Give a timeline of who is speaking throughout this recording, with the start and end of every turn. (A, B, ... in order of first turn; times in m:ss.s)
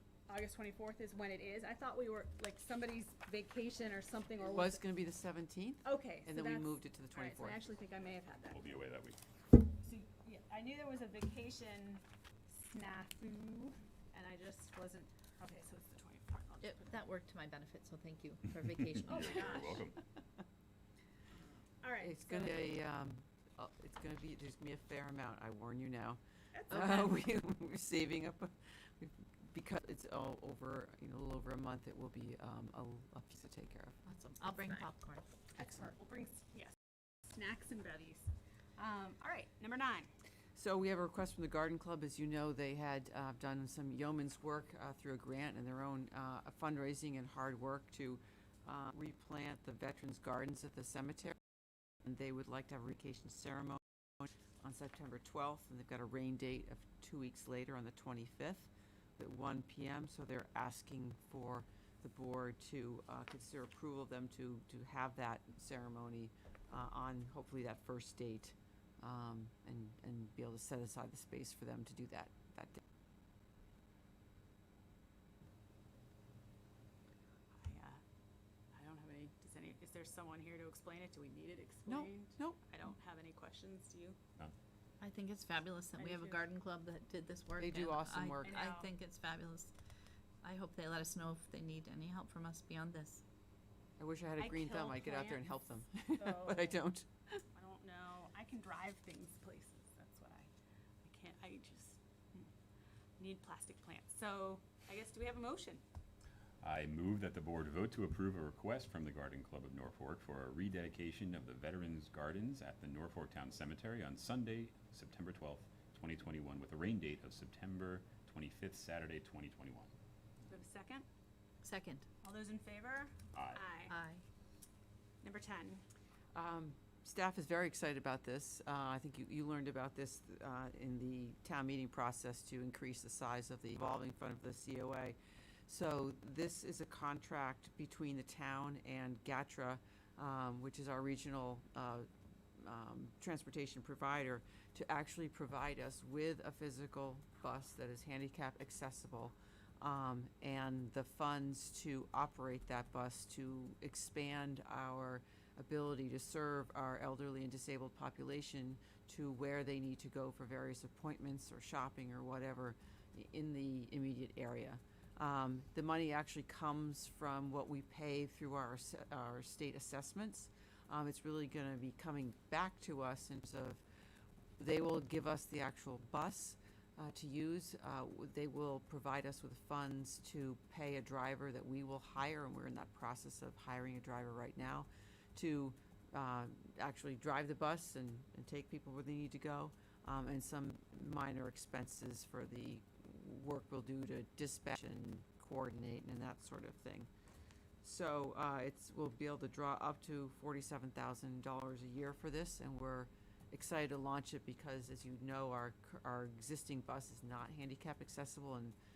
0:00.3-0:04.8 A
0:04.5-0:07.6 B
0:05.8-0:08.8 A
0:08.5-0:09.2 C
0:09.7-0:17.0 A
0:16.6-0:19.8 D
0:19.0-0:19.9 A
0:19.0-0:20.0 C
0:21.8-0:22.8 A
0:22.0-0:34.0 B
0:26.5-0:27.2 A
0:34.1-0:35.3 D
0:35.5-0:40.1 A
0:35.6-0:35.8 B
0:40.6-0:51.4 B
0:52.0-1:12.8 B
1:17.5-1:18.0 A
1:18.7-1:24.2 A
1:21.9-1:22.6 B
1:25.0-1:29.7 D
1:26.0-1:26.4 A
1:27.6-1:28.6 B
1:28.4-1:28.9 A
1:30.4-1:33.2 D
1:34.0-1:37.4 B
1:34.4-1:35.5 A
1:36.1-1:36.8 A
1:37.5-1:40.5 A
1:41.0-1:42.5 A
1:43.2-1:45.8 A
1:46.6-1:59.9 C
2:00.5-2:01.0 A
2:01.6-2:02.0 D
2:02.2-2:04.0 A
2:03.3-2:03.6 C
2:03.9-2:04.2 D
2:05.2-2:05.8 A
2:06.3-2:53.8 B
2:54.6-3:17.1 B
3:17.8-3:28.8 B